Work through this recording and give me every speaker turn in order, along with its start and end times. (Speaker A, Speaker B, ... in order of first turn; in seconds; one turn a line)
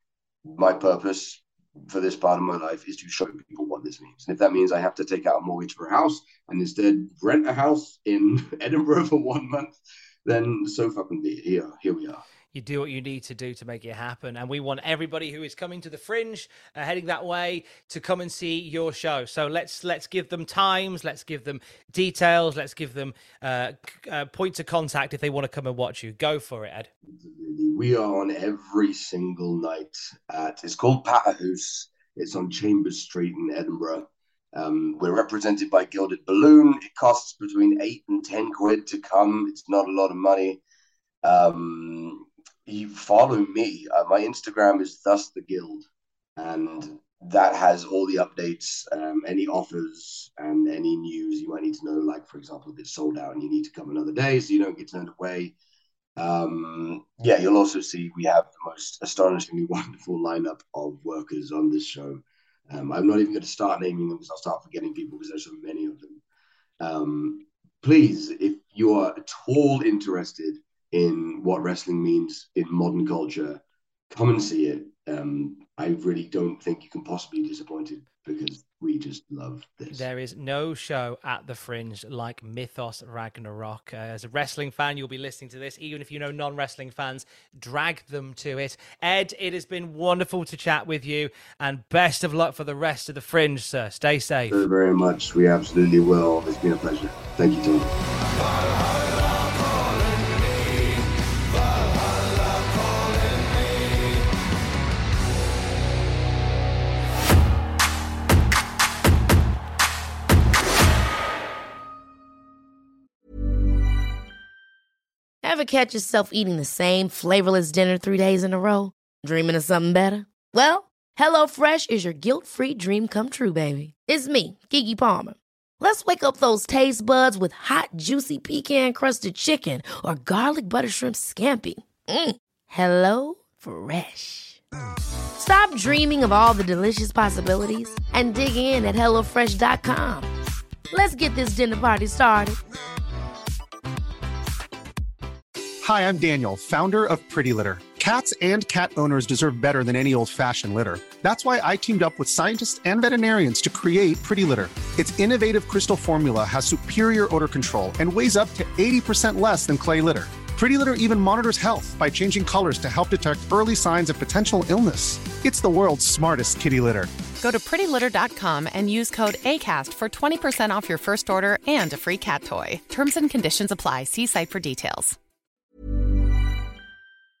Speaker A: 0.4-12.2
Speaker B: 12.5-26.9
Speaker A: 27.2-40.6
Speaker A: 41.2-45.8
Speaker A: 46.4-55.5
Speaker A: 56.2-66.2
Speaker A: 66.8-80.0
Speaker B: 79.9-94.6
Speaker A: 94.5-97.9
Speaker C: 115.4-134.6
Speaker C: 135.3-140.3
Speaker C: 140.9-142.6
Speaker D: 145.8-167.1
Speaker E: 167.4-175.2